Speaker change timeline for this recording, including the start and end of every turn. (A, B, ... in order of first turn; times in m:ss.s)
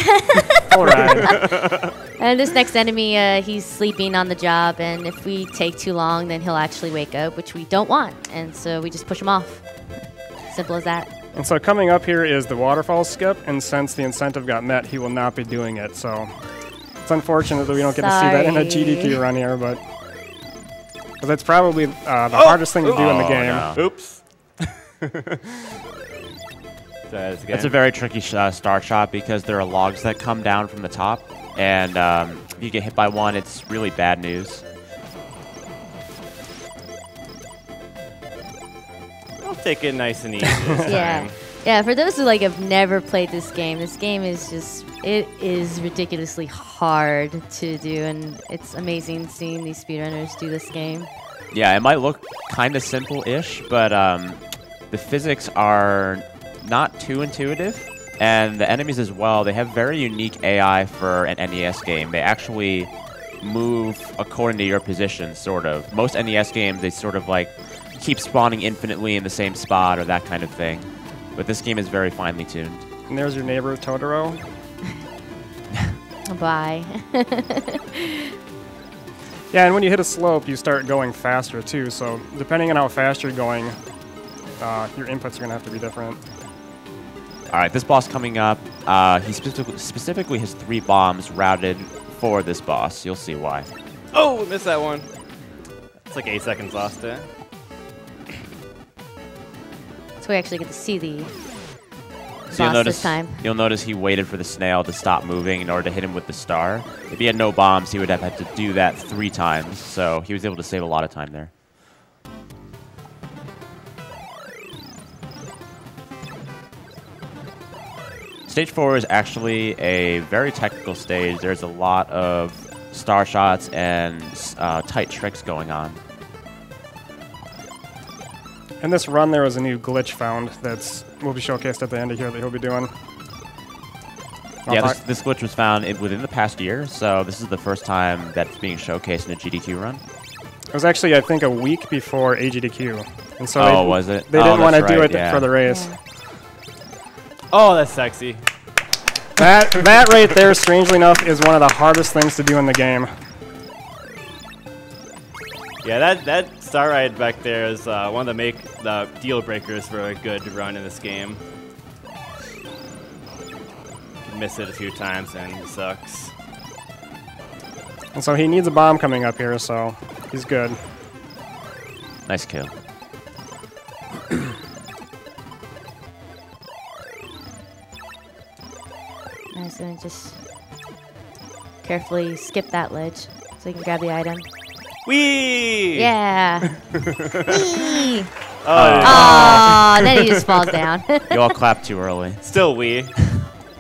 0:00.6-0:01.3 A
0:01.3-0:01.8 B
0:02.2-0:11.1 C
0:11.3-0:19.9 A
0:17.8-0:19.2 C
0:21.2-0:23.7 A
0:22.3-0:25.4 B
0:22.9-0:23.8 D
0:27.1-0:27.8 B
0:27.5-0:34.6 D
0:39.4-0:41.4 B
0:40.8-0:51.1 C
0:51.5-1:12.8 D
1:13.1-1:14.7 A
1:16.3-1:18.1 C
1:19.5-1:23.8 A
1:24.6-1:26.2 A
1:27.5-1:33.7 D
1:34.1-1:35.1 B
1:36.0-1:37.3 B
1:40.2-1:41.3 C
1:42.5-1:51.5 D
1:42.5-1:43.5 C
1:58.5-2:06.0 D
2:08.8-2:12.9 A
2:14.6-2:15.0 A
2:14.7-2:20.0 D
2:20.7-2:26.0 A
2:23.6-2:25.5 D
2:25.6-2:26.0 C
2:27.5-2:28.4 B
2:29.4-2:33.1 A
2:35.8-2:41.4 B
2:44.2-2:46.3 B
2:48.1-2:50.8 A
2:52.2-2:52.7 D
2:59.5-3:00.4 C
3:01.8-3:04.5 C
3:05.0-3:06.7 B
3:06.0-3:07.0 C
3:07.5-3:08.3 C
3:08.6-3:10.3 B
3:08.7-3:09.8 D
3:09.0-3:11.4 C
3:11.3-3:13.2 D
3:12.4-3:13.1 B